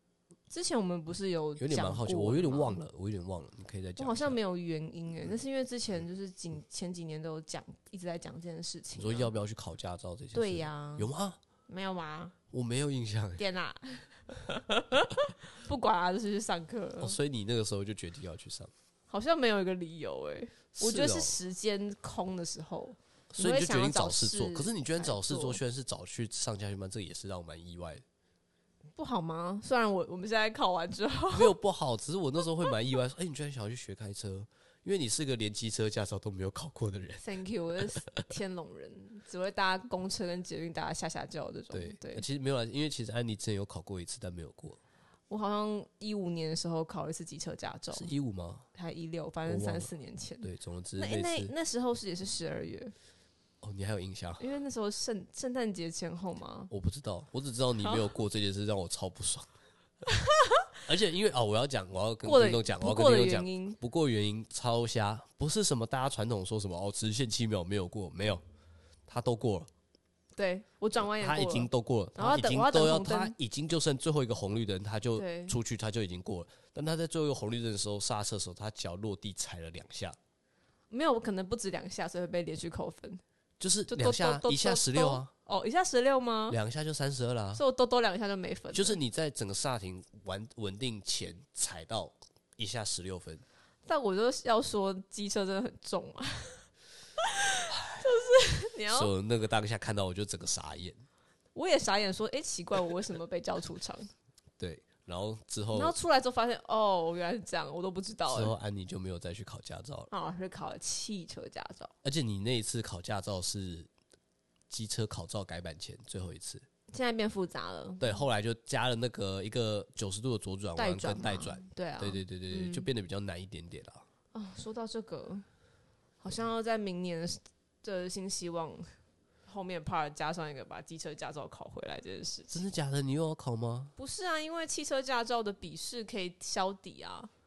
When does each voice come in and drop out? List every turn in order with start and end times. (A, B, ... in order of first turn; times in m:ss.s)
0:00.5-0:02.8 A
0:01.6-0:04.4 B
0:04.0-0:09.3 A
0:09.0-0:11.4 B
0:10.3-0:11.1 A
0:11.7-0:12.3 A
0:12.5-0:13.4 B
0:13.4-0:17.2 A
0:17.0-0:18.7 B
0:19.1-0:25.6 A
0:20.7-0:21.4 B
0:23.3-0:28.0 B
0:29.0-0:31.6 A
0:31.3-0:37.2 B
0:37.2-0:42.2 A
0:41.7-0:44.8 B
0:45.3-0:48.1 A
0:47.9-0:48.7 B
0:48.7-0:52.9 A
0:49.5-0:49.9 B
0:50.4-0:51.5 B
0:53.6-0:54.4 B
0:54.4-0:56.7 A
0:56.7-0:59.5 B
0:57.8-0:58.1 A
1:00.1-1:00.7 A
1:00.9-1:08.4 B
1:02.2-1:03.8 A
1:09.1-1:09.7 B
1:10.4-1:13.4 A
1:11.0-1:20.2 B
1:15.1-1:15.6 A
1:20.9-1:23.2 A
1:23.6-1:25.3 B
1:23.9-1:26.6 A
1:26.5-1:27.6 B
1:27.6-1:29.0 A
1:28.7-1:33.4 B
1:33.9-1:36.6 A
1:37.2-1:39.1 A
1:37.7-1:38.1 B
1:38.9-1:41.0 B
1:41.6-1:44.1 A
1:44.6-1:45.9 B
1:45.7-1:48.5 A
1:48.3-1:50.1 B
1:50.1-1:51.9 A
1:52.0-1:53.9 B
1:54.7-1:56.6 B
1:56.9-1:58.2 A
1:58.0-2:04.0 B
2:00.8-2:02.9 A
2:04.3-2:05.4 A
2:06.2-2:08.9 A
2:09.5-2:12.6 A
2:12.5-2:13.9 B
2:14.0-2:17.3 A